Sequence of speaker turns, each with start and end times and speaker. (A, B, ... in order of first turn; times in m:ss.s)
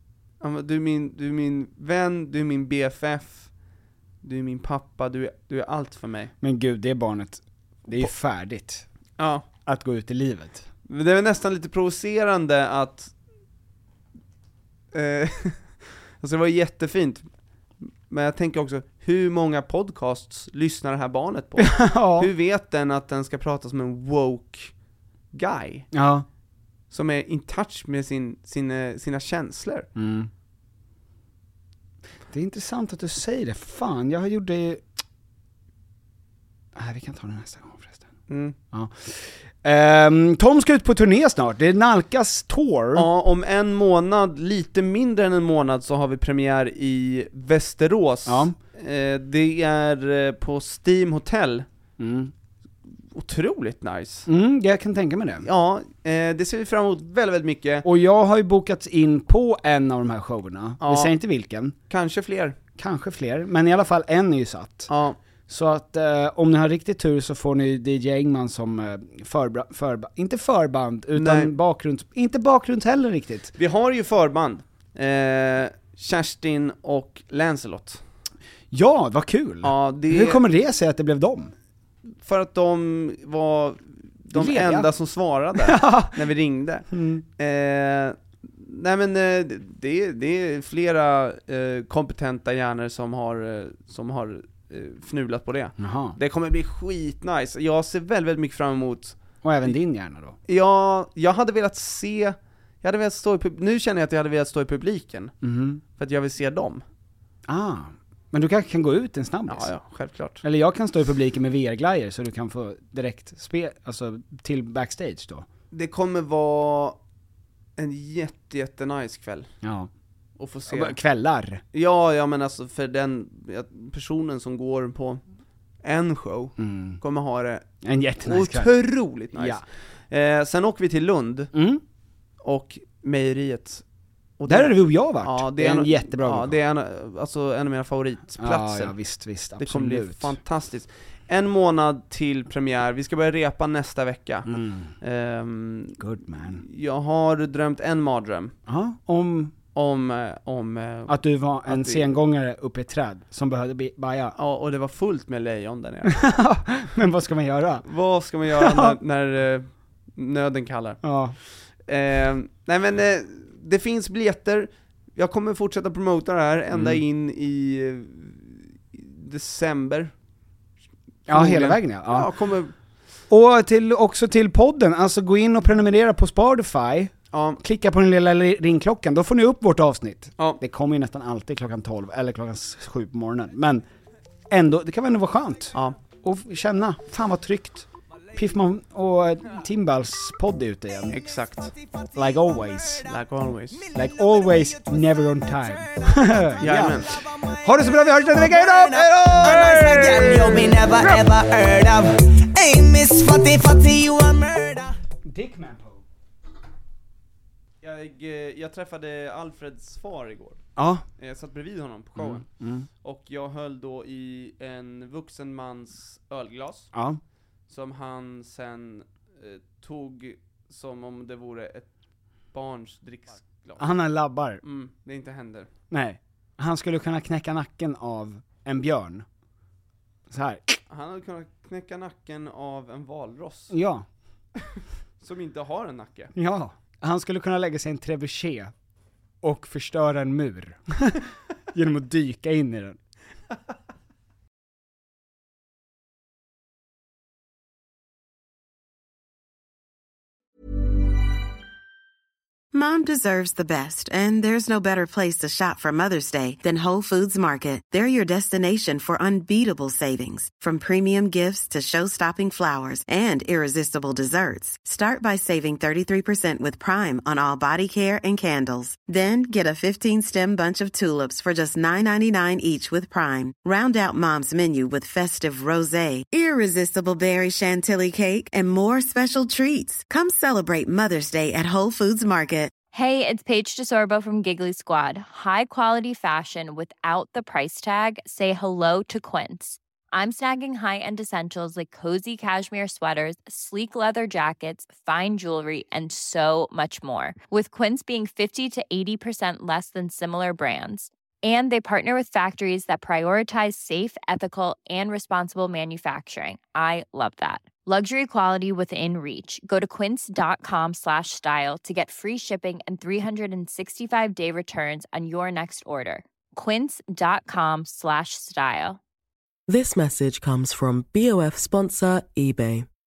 0:00.4-0:03.5 A
0:04.2-0:06.3 A
0:06.4-0:08.8 B
0:09.2-0:09.4 A
0:09.6-0:10.7 B
0:10.9-0:13.1 A
0:14.9-0:17.3 A
0:17.8-0:24.7 A
0:21.6-0:22.3 B
0:25.3-0:25.9 A
0:25.9-0:26.3 B
0:26.9-0:29.9 A
0:30.0-0:30.3 B
0:32.3-0:34.8 B
0:36.7-0:38.0 B
0:38.3-0:38.6 A
0:38.7-0:43.1 B
0:42.9-0:51.6 A
0:48.2-0:48.5 B
0:52.0-0:52.3 B
0:53.1-0:54.3 A
0:54.3-0:55.5 B
0:55.4-0:57.8 A
0:57.8-1:01.7 B
1:00.8-1:01.1 A
1:01.9-1:02.6 A
1:02.8-1:04.9 B
1:04.9-1:05.2 A
1:05.5-1:13.5 B
1:11.1-1:11.5 A
1:13.6-1:18.0 A
1:18.7-1:21.5 B
1:19.6-1:20.4 A
1:22.2-1:39.8 A
1:24.3-1:24.9 B
1:25.5-1:26.2 B
1:26.9-1:27.2 B
1:35.8-1:36.2 B
1:39.4-1:40.4 B
1:40.5-1:45.3 A
1:45.4-1:45.8 B
1:46.0-1:46.8 A
1:47.4-1:49.7 B
1:49.5-1:50.4 A
1:50.4-1:55.4 B
1:55.7-1:57.0 A
1:57.8-1:59.5 A
1:59.6-1:59.9 B
2:00.4-2:01.0 A
2:00.7-2:01.6 B
2:01.7-2:05.2 A
2:05.8-2:07.6 A
2:06.6-2:07.0 B
2:07.8-2:08.7 B
2:08.2-2:11.5 A
2:09.3-2:09.6 B
2:11.5-2:11.8 B
2:12.4-2:13.8 A
2:14.4-2:19.0 A
2:14.5-2:16.6 B
2:18.4-2:20.4 B
2:19.6-2:26.0 A
2:24.5-2:24.9 B
2:26.0-2:26.6 B
2:26.6-2:28.5 A
2:28.7-2:29.5 B
2:29.7-2:32.1 A
2:31.1-2:34.3 B
2:34.4-2:36.2 A
2:36.1-2:37.8 B
2:37.8-2:41.0 A
2:38.5-2:39.0 B
2:41.0-2:41.4 B
2:41.9-2:50.1 A
2:46.7-2:47.0 B
2:51.3-2:52.3 B
2:51.3-2:52.7 A
2:53.3-3:03.8 B
2:57.3-2:57.6 A
3:04.5-3:11.2 B
3:05.7-3:06.0 A
3:11.1-3:11.7 A
3:12.1-3:13.1 B
3:13.1-3:13.8 A
3:13.9-3:21.2 B
3:15.8-3:25.0 C
3:16.6-3:17.1 A
3:25.2-3:26.0 B
3:27.8-3:30.6 A
3:30.8-3:31.0 B
3:31.2-3:32.5 A
3:32.2-3:32.9 B
3:33.0-3:36.9 A
3:36.9-3:37.2 B
3:37.7-3:41.9 A
3:42.5-3:43.8 A
3:43.8-3:44.6 B
3:44.6-3:45.7 A
3:45.9-3:49.2 B
3:50.3-3:50.8 B
3:50.9-3:53.7 A
3:53.7-3:54.1 B
3:54.6-3:56.3 A
3:56.3-3:58.7 B
3:59.4-4:03.0 B
4:12.7-4:42.7 D
4:42.9-5:19.0 E
5:19.7-5:22.8 F